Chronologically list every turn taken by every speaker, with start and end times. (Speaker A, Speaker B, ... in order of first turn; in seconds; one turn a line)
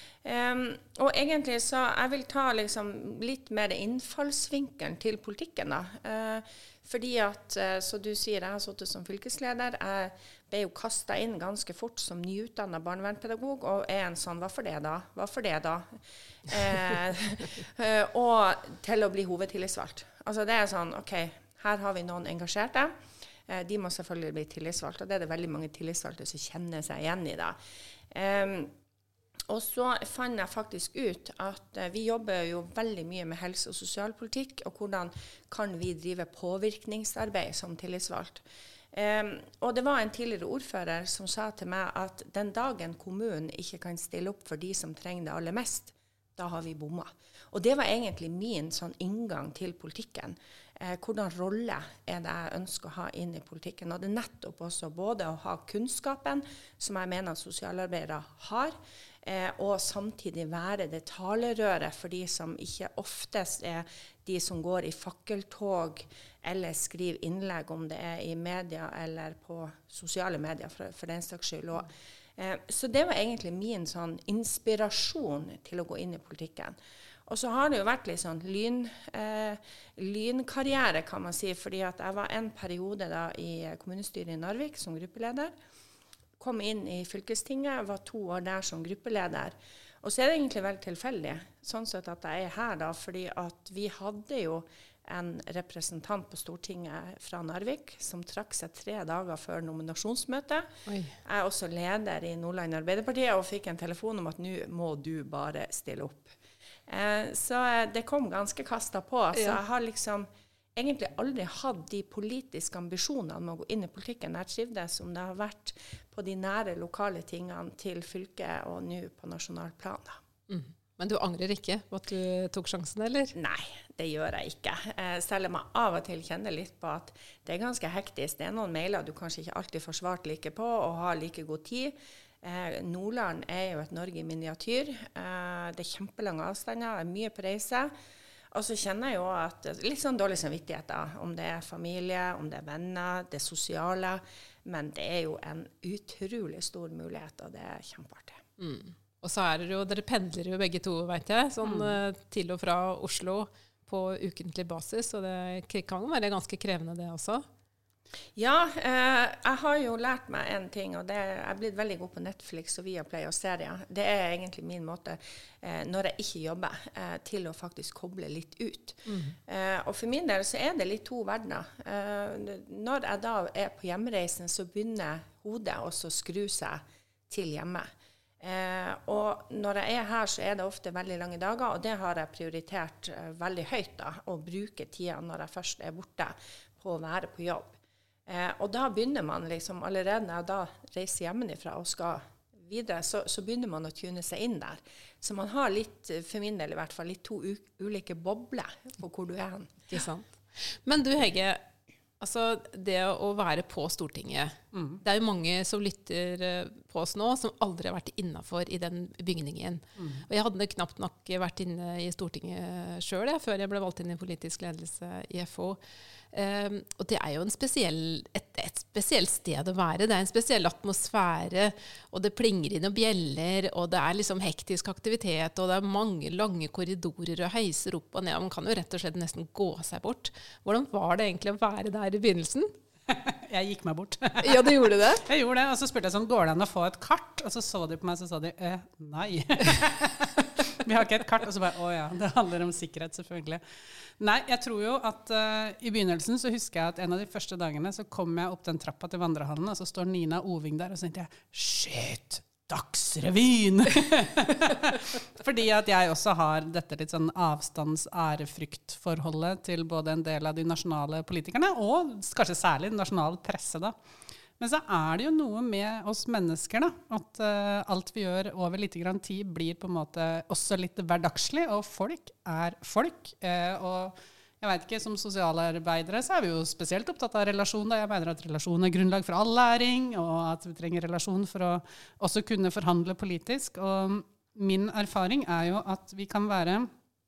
Speaker A: 0.2-22.9
Speaker A: 23.5-27.6
Speaker A: 28.1-28.7
Speaker A: 29.5-76.8
Speaker A: 77.3-85.5
Speaker A: 86.4-100.7
Speaker B: 100.8-101.2
Speaker A: 101.2-106.3
Speaker A: 106.9-120.2
Speaker B: 109.3-109.6
Speaker B: 120.5-123.3
Speaker A: 123.3-137.9
Speaker A: 138.5-148.4
Speaker B: 148.6-157.4
Speaker C: 151.7-151.9
Speaker A: 158.3-187.7
Speaker B: 169.1-169.3
Speaker A: 188.3-199.9
Speaker B: 199.9-201.6
Speaker B: 202.2-215.8
Speaker B: 216.3-232.7
Speaker C: 233.1-243.6
Speaker B: 234.4-235.3
Speaker C: 244.2-263.9
Speaker C: 264.6-286.9